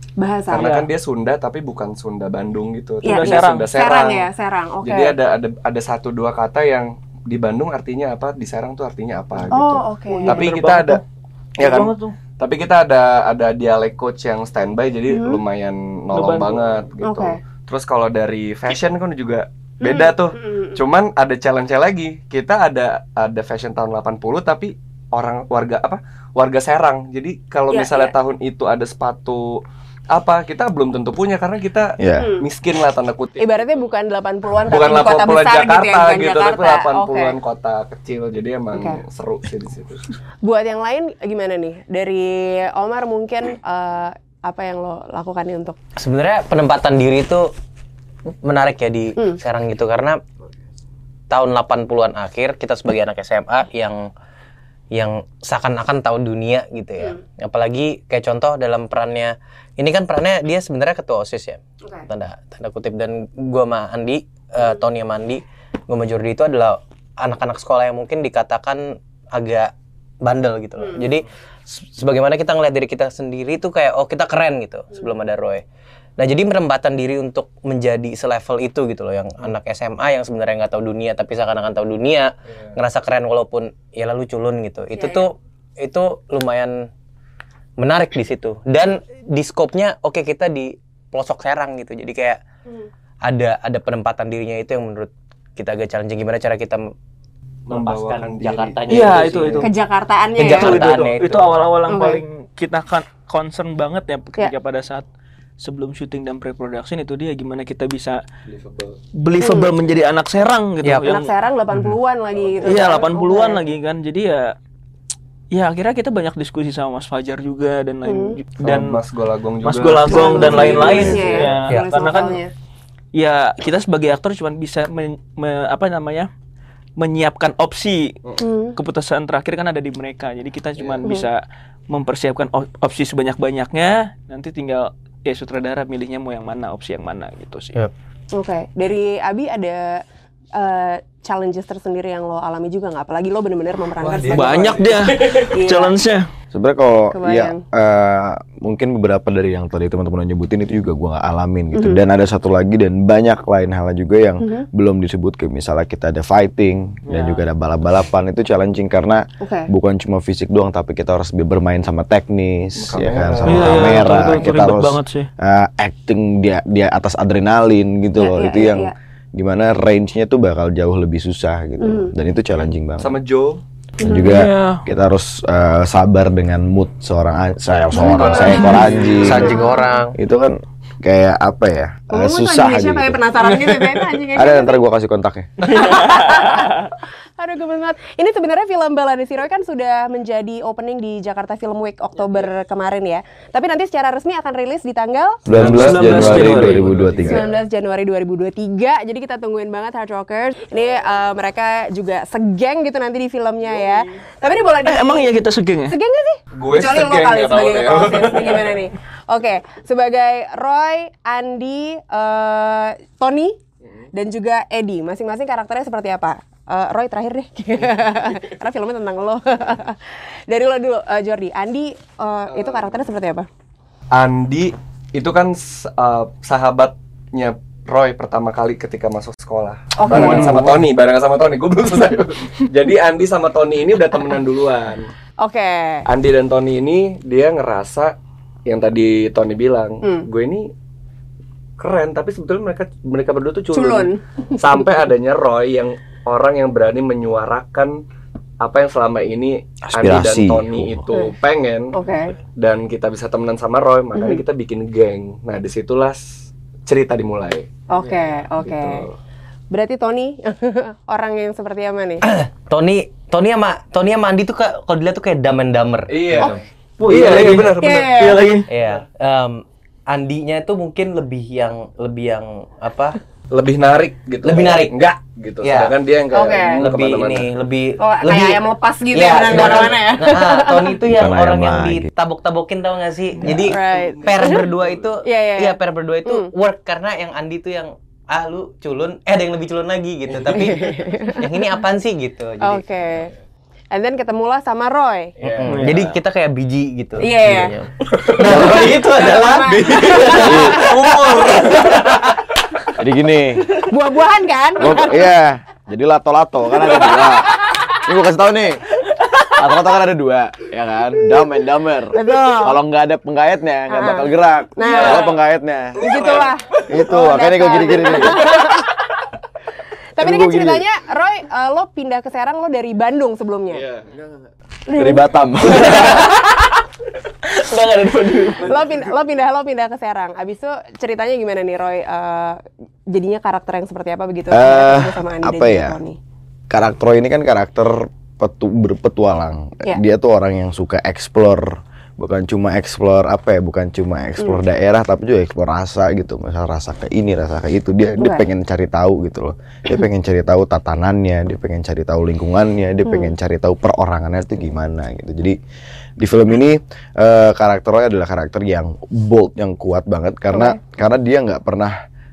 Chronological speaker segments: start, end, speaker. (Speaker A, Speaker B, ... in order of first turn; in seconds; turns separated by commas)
Speaker A: 0.2-0.8, Speaker B: 0.5-4.3, Speaker A: 3.0-5.2, Speaker C: 3.0-3.7, Speaker B: 4.8-11.0, Speaker A: 9.5-10.5, Speaker C: 10.1-11.0, Speaker B: 11.6-33.5, Speaker C: 11.6-12.1, Speaker A: 15.1-15.4, Speaker C: 16.1-16.9, Speaker A: 17.0-17.4, Speaker A: 19.8-20.7, Speaker A: 27.7-28.1, Speaker D: 32.0-32.3, Speaker A: 32.2-32.5, Speaker A: 33.4-37.4, Speaker B: 34.6-40.1, Speaker A: 38.7-39.0, Speaker A: 40.4-45.8, Speaker E: 46.0-47.5, Speaker E: 48.4-50.2, Speaker E: 51.3-54.1, Speaker E: 54.9-69.7, Speaker E: 70.2-75.6, Speaker A: 70.8-71.0, Speaker E: 76.2-86.9, Speaker A: 84.9-85.2, Speaker E: 87.8-92.4, Speaker E: 93.2-96.8, Speaker B: 97.7-99.6, Speaker E: 97.7-99.7, Speaker C: 98.9-99.7, Speaker A: 99.6-100.8, Speaker E: 100.4-101.6, Speaker C: 100.4-105.0, Speaker A: 101.9-102.2, Speaker C: 105.6-108.2, Speaker B: 108.5-109.0, Speaker C: 109.2-111.3, Speaker A: 109.4-109.7, Speaker E: 110.8-111.1, Speaker A: 111.0-113.6, Speaker B: 112.3-113.0, Speaker C: 112.6-114.5, Speaker C: 115.5-119.0, Speaker A: 118.0-118.4, Speaker B: 118.6-121.6, Speaker C: 119.6-122.4, Speaker A: 120.1-122.5, Speaker C: 123.1-126.3, Speaker C: 127.0-128.2, Speaker A: 128.4-128.8, Speaker C: 128.7-137.7, Speaker A: 138.3-140.0, Speaker A: 140.5-145.9, Speaker B: 144.0-145.4, Speaker C: 144.3-146.3, Speaker D: 146.5-173.1, Speaker A: 147.1-147.6, Speaker A: 151.7-152.0, Speaker A: 154.4-154.7, Speaker C: 157.1-157.4, Speaker A: 159.4-159.7, Speaker B: 162.8-164.4, Speaker C: 163.4-165.3, Speaker A: 168.2-168.9, Speaker A: 171.8-172.1, Speaker B: 173.0-173.6, Speaker A: 174.0-174.3, Speaker D: 174.0-179.6, Speaker C: 174.1-174.8, Speaker A: 177.9-179.9, Speaker B: 178.0-179.5, Speaker E: 179.1-180.2, Speaker D: 180.2-183.2, Speaker A: 182.1-184.8, Speaker D: 184.3-185.8, Speaker A: 185.6-195.4, Speaker C: 185.8-186.7, Speaker D: 195.4-197.4, Speaker B: 195.5-197.5, Speaker C: 195.5-196.9, Speaker A: 197.3-205.3, Speaker C: 204.8-205.9, Speaker A: 205.9-213.6, Speaker B: 206.5-208.8, Speaker A: 214.1-223.5, Speaker B: 222.5-222.9, Speaker B: 224.1-235.1, Speaker A: 229.9-230.5, Speaker C: 230.1-230.7, Speaker A: 235.4-236.1, Speaker B: 236.1-238.1, Speaker B: 238.7-240.7, Speaker B: 241.8-248.0, Speaker A: 243.7-244.6, Speaker B: 248.6-252.0, Speaker D: 249.9-251.0, Speaker A: 251.9-252.3, Speaker B: 252.6-257.7, Speaker A: 254.2-254.4, Speaker A: 257.9-259.0, Speaker B: 258.6-259.1, Speaker A: 259.7-262.2, Speaker E: 262.2-266.6, Speaker B: 266.1-269.0, Speaker C: 267.0-268.7, Speaker A: 267.8-268.5, Speaker E: 268.7-273.2, Speaker B: 273.5-277.5, Speaker E: 274.4-275.9, Speaker A: 276.3-276.9, Speaker E: 276.7-292.8, Speaker A: 278.0-281.0, Speaker D: 281.1-282.1, Speaker B: 283.4-285.1, Speaker A: 283.5-284.6, Speaker A: 285.2-286.5, Speaker B: 290.3-290.6, Speaker A: 290.5-291.7, Speaker A: 292.6-293.3, Speaker A: 293.9-295.3, Speaker B: 295.4-296.0, Speaker E: 295.4-302.3, Speaker C: 295.6-296.1, Speaker A: 297.2-297.7, Speaker B: 298.1-299.0, Speaker A: 298.8-300.8, Speaker B: 299.7-302.3, Speaker C: 300.0-300.7, Speaker D: 300.3-301.0, Speaker D: 303.0-303.7, Speaker A: 303.7-305.3, Speaker D: 304.8-308.9, Speaker A: 307.1-307.9, Speaker D: 309.4-316.0, Speaker A: 312.1-312.8, Speaker A: 313.9-315.4, Speaker C: 314.8-315.2, Speaker B: 315.9-316.8, Speaker A: 316.0-319.0, Speaker D: 316.9-318.7, Speaker A: 320.1-323.9, Speaker D: 320.2-320.8, Speaker B: 323.7-324.3, Speaker A: 324.9-326.7, Speaker D: 324.9-326.3, Speaker C: 325.7-326.5, Speaker C: 327.4-328.8, Speaker A: 328.6-336.2, Speaker D: 334.5-336.0, Speaker D: 336.7-355.6, Speaker A: 348.2-348.4, Speaker A: 353.1-353.3, Speaker D: 356.2-362.0, Speaker A: 360.5-360.8